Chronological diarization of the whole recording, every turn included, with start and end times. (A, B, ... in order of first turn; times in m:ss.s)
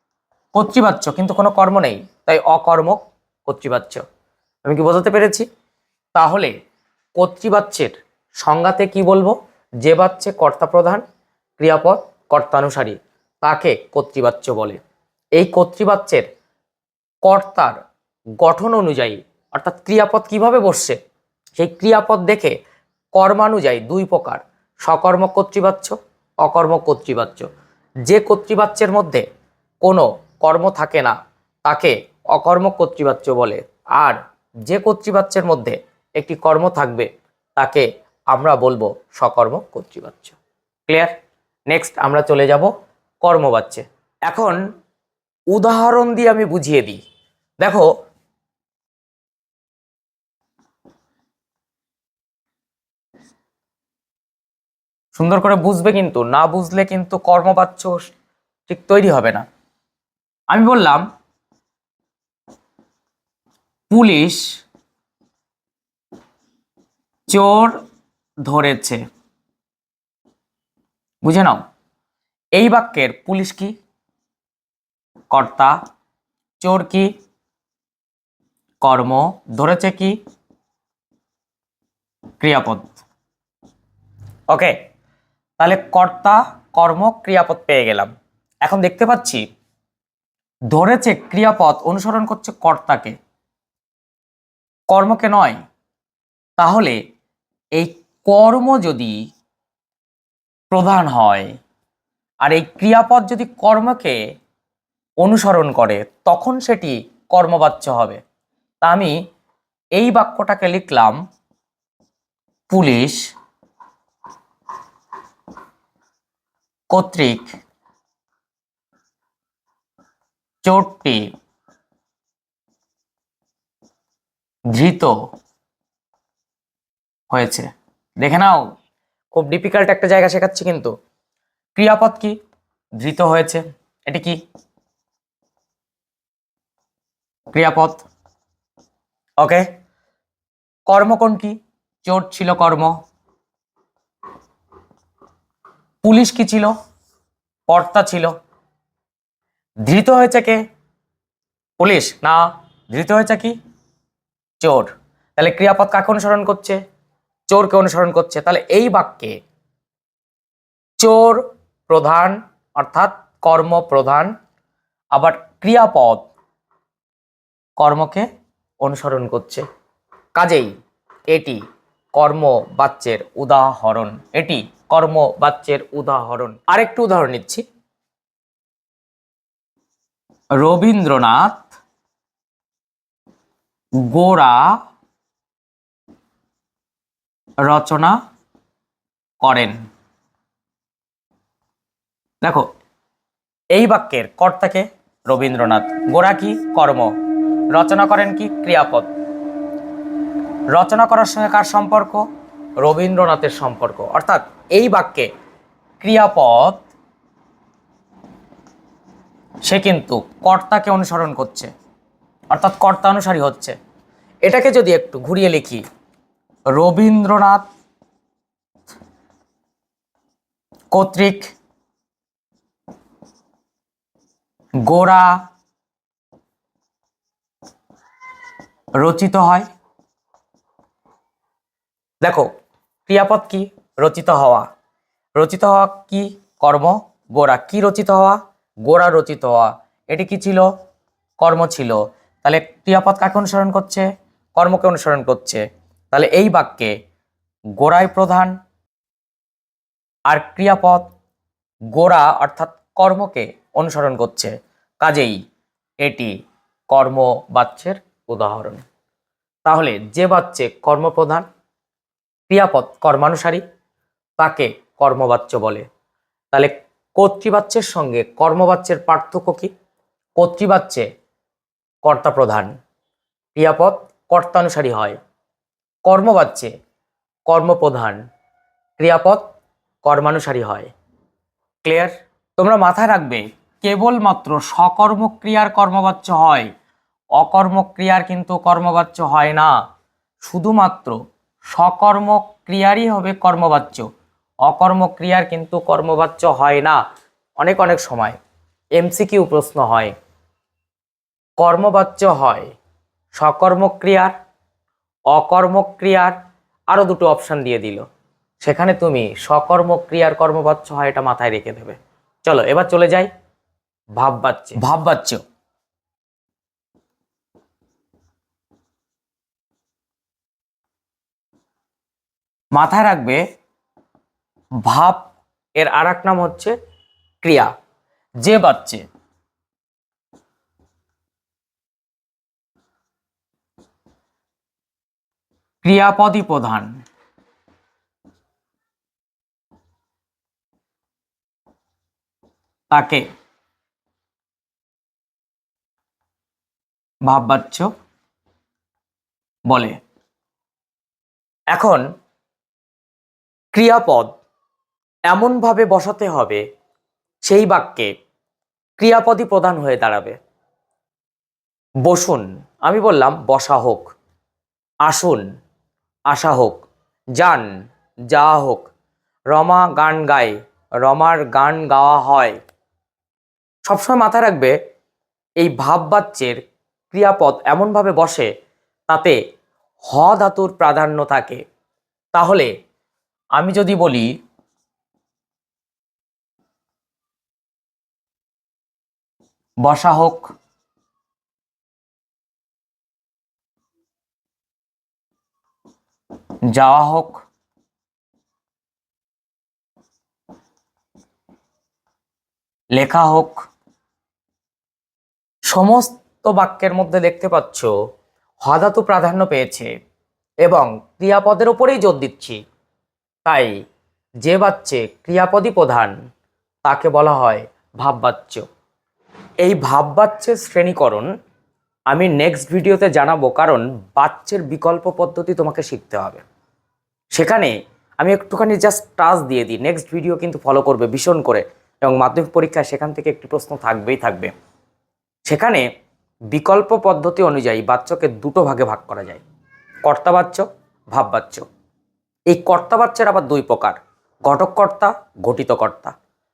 0:00.5-0:04.0 A
0:04.7-0:05.5 A
0:06.2-0:06.5 A
0:07.2-0:11.0 A
0:11.6-0:14.8 A
0:15.4-0:16.3 A
0:17.2-0:17.8 A
0:18.4-0:21.0 A
0:21.6-0:22.6 A
0:23.2-0:27.5 A
0:28.1-0:29.2 A
0:29.8-0:41.1 A
0:41.7-0:42.7 A
0:43.2-0:44.6 A
0:45.5-0:47.0 A
0:47.6-0:47.9 A
0:55.2-0:58.1 A
0:58.7-0:59.4 A
1:00.5-1:01.1 A
1:03.9-1:04.4 A
1:07.3-1:07.8 A
1:08.4-1:09.0 A
1:11.2-1:11.6 A
1:12.6-1:13.8 A
1:15.3-1:15.8 A
1:16.6-1:17.1 A
1:18.8-1:20.2 A
1:22.4-1:23.0 A
1:24.5-1:24.8 A
1:25.6-1:28.1 A
1:28.6-1:29.4 A
1:30.7-1:33.2 A
1:34.9-1:35.6 A
1:36.6-1:37.0 A
1:37.8-1:39.2 A
1:40.7-1:41.5 A
1:42.4-1:44.2 A
1:45.2-1:48.2 A
1:48.8-1:49.2 A
1:50.0-1:51.2 A
1:52.7-1:53.2 A
1:56.9-1:57.5 A
2:00.6-2:01.3 A
2:04.7-2:05.2 A
2:07.3-2:07.7 A
2:08.2-2:08.7 A
2:09.3-2:10.9 A
2:11.8-2:12.4 A
2:13.0-2:14.4 A
2:17.5-2:18.1 A
2:19.4-2:19.7 A
2:20.9-2:23.0 A
2:26.0-2:26.7 A
2:27.7-2:28.3 A
2:29.8-2:30.6 A
2:31.8-2:33.6 A
2:34.6-2:36.8 A
2:37.5-2:39.4 A
2:41.0-2:44.3 A
2:45.1-2:46.3 A
2:47.8-2:48.3 A
2:48.8-2:49.6 A
2:50.4-2:50.7 A
2:51.3-2:51.6 A
2:52.2-2:57.6 A
3:00.6-3:01.7 A
3:04.0-3:04.8 A
3:07.6-3:08.2 A
3:09.4-3:09.8 A
3:12.4-3:12.7 A
3:13.8-3:17.1 A
3:17.7-3:19.1 A
3:20.7-3:22.3 A
3:22.8-3:25.3 A
3:26.0-3:26.8 A
3:29.7-3:31.7 A
3:32.5-3:33.8 A
3:34.4-3:35.8 A
3:36.8-3:37.6 A
3:40.9-3:41.5 A
3:44.9-3:45.4 A
3:49.0-3:49.7 A
3:52.2-3:52.5 A
3:53.1-3:54.7 A
3:55.4-4:00.7 A
4:01.4-4:06.9 A
4:07.8-4:08.6 A
4:10.3-4:11.1 A
4:11.9-4:15.4 A
4:16.0-4:16.3 A
4:16.9-4:18.8 A
4:19.7-4:21.5 A
4:22.5-4:23.6 A
4:24.4-4:25.9 A
4:26.5-4:29.7 A
4:30.4-4:31.0 A
4:32.0-4:32.7 A
4:33.6-4:35.2 A
4:36.1-4:36.7 A
4:37.5-4:38.2 A
4:39.0-4:39.4 A
4:40.0-4:40.9 A
4:41.8-4:46.7 A
4:47.4-4:49.8 A
4:50.4-4:51.2 A
4:51.7-4:54.1 A
4:54.6-4:57.0 A
4:57.6-4:58.4 A
4:59.0-5:00.1 A
5:01.6-5:02.7 A
5:03.4-5:04.3 A
5:05.3-5:06.4 A
5:06.9-5:08.0 A
5:08.6-5:13.3 A
5:14.2-5:15.4 A
5:22.7-5:23.4 A
5:24.8-5:26.7 A
5:27.4-5:27.7 A
5:28.4-5:29.0 A
5:35.8-5:36.9 A
5:42.9-5:43.2 A
5:47.3-5:47.9 A
5:49.7-5:50.0 A
5:51.7-5:52.0 A
5:53.7-5:54.3 A
5:55.3-5:56.6 A
5:57.5-5:58.1 A
5:59.0-6:00.4 A
6:02.1-6:04.1 A
6:05.0-6:05.4 A
6:06.3-6:06.8 A
6:07.4-6:07.7 A
6:08.3-6:08.9 A
6:09.5-6:12.6 A
6:13.9-6:14.7 A
6:15.6-6:16.6 A
6:17.1-6:18.5 A
6:19.1-6:19.4 A
6:20.1-6:21.6 A
6:22.3-6:22.7 A
6:23.6-6:24.3 A
6:29.8-6:30.5 A
6:36.7-6:37.4 A
6:42.9-6:43.6 A
6:45.7-6:47.9 A
6:48.6-6:49.9 A
6:50.6-6:52.6 A
6:53.4-6:53.8 A
6:54.4-6:56.2 A
6:56.8-6:58.6 A
6:59.6-7:01.3 A
7:02.1-7:06.4 A
7:07.4-7:14.5 A
7:15.5-7:15.9 A
7:16.5-7:19.4 A
7:20.0-7:21.7 A
7:22.5-7:26.2 A